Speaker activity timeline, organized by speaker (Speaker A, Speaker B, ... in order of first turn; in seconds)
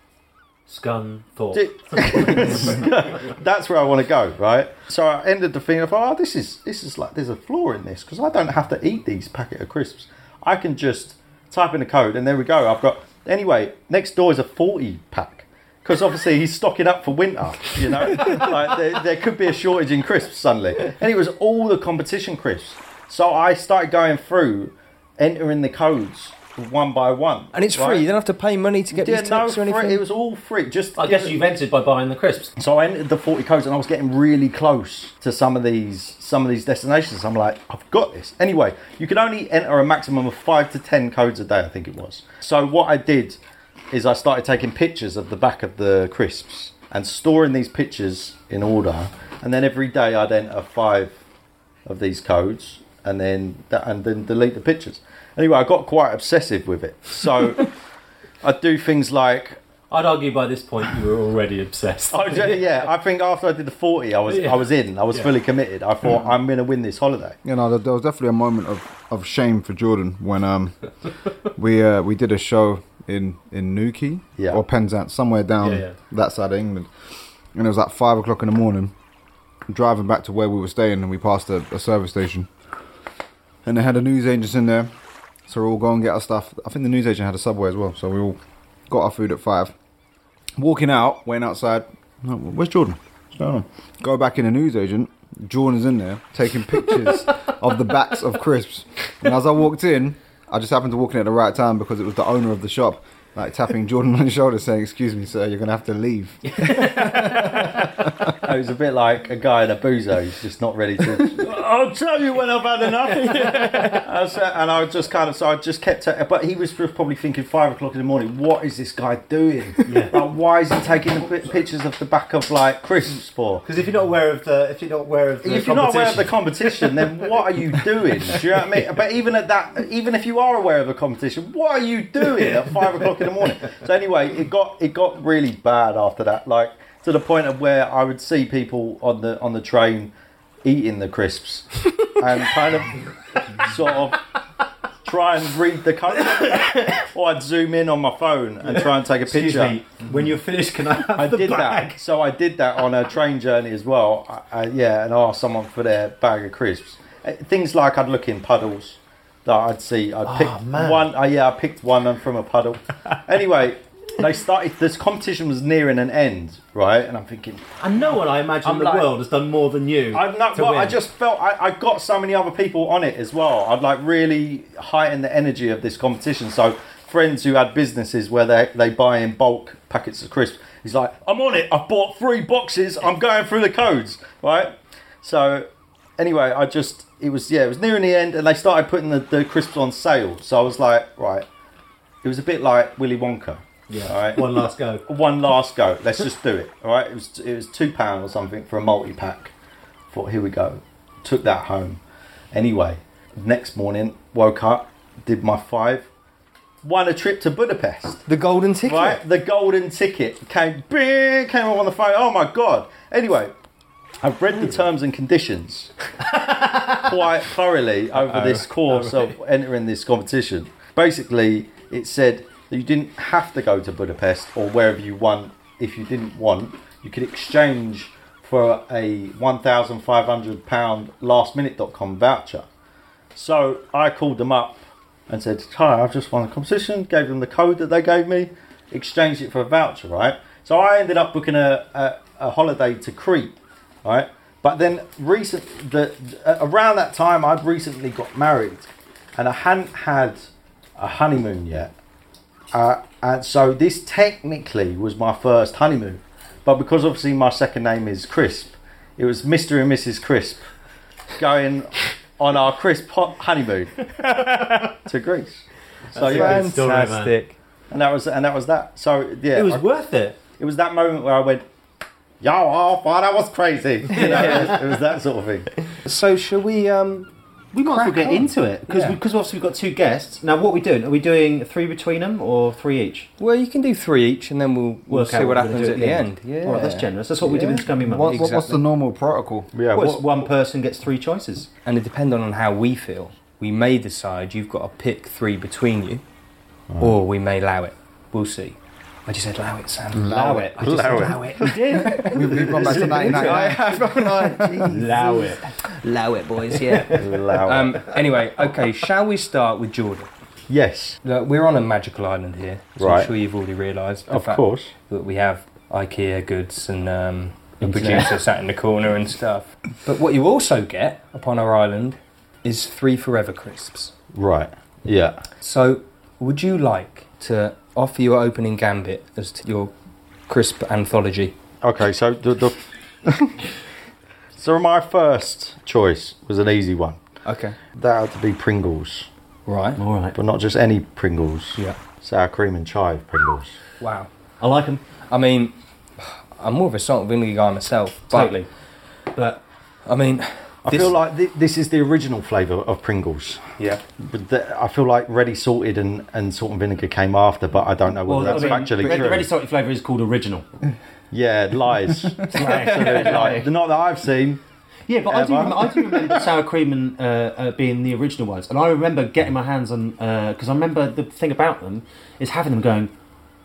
Speaker A: 0.7-3.2, 31.0-32.5, 59.9-62.9, 64.3-65.3, 75.6-76.0, 119.8-120.2, 123.6-127.1, 146.6-146.9, 148.7-152.0, 160.2-161.1, 167.8-171.0, 193.9-195.0, 216.3-217.0, 266.1-267.3, 269.5-270.4, 274.1-274.8, 277.7-283.3, 285.1-288.6, 289.9-291.7, 300.3-300.8, 301.5-304.1, 304.8-305.6, 306.9-307.2, 317.9-318.2, 340.0-340.4, 344.6-345.0, 348.3-348.7, 349.3-349.6, 358.2-360.6, 362.5-363.7, 365.1-373.1
Speaker B: 1.5-28.1, 28.9-31.4, 32.6-43.4, 43.9-51.2, 51.9-57.7, 58.4-59.6, 62.1-67.4, 74.4-74.6, 108.4-123.6, 125.4-140.1, 140.6-143.0, 143.6-144.2, 145.0-149.8, 151.1-169.1, 170.1-191.4, 192.2-199.5, 200.1-202.0, 202.5-206.1, 206.8-208.2, 208.8-213.5, 214.2-215.9, 216.9-232.7, 233.3-251.9, 252.7-260.6, 261.4-264.1, 265.0-266.7, 267.9-269.9, 270.5-271.6, 272.4-275.8, 289.7-290.4, 296.9-297.2, 300.8-301.7, 307.1-308.1, 310.7-311.2, 313.0-313.3, 314.3-314.9, 324.3-325.4, 331.8-333.6, 334.6-337.2, 337.9-339.3, 340.3-343.8, 350.8-353.6, 354.2-359.5, 361.3-364.6, 365.3-366.4
Speaker C: 27.5-30.0, 106.7-107.2, 113.4-114.0, 208.3-209.2, 218.1-218.7, 266.2-267.5, 274.1-274.7, 276.0-277.3, 277.8-279.2, 283.4-288.8, 291.8-296.2, 297.0-310.3, 311.2-324.1, 325.6-329.9, 330.5-331.5, 337.4-337.8, 339.7-340.0, 344.0-344.3, 345.3-348.6, 350.1-351.1, 362.6-363.5
Speaker D: 67.4-70.8, 71.5-76.9, 77.5-78.9, 79.7-82.5, 83.6-84.9, 85.5-89.7, 90.6-108.1, 288.0-289.7, 300.1-300.7, 302.1-304.2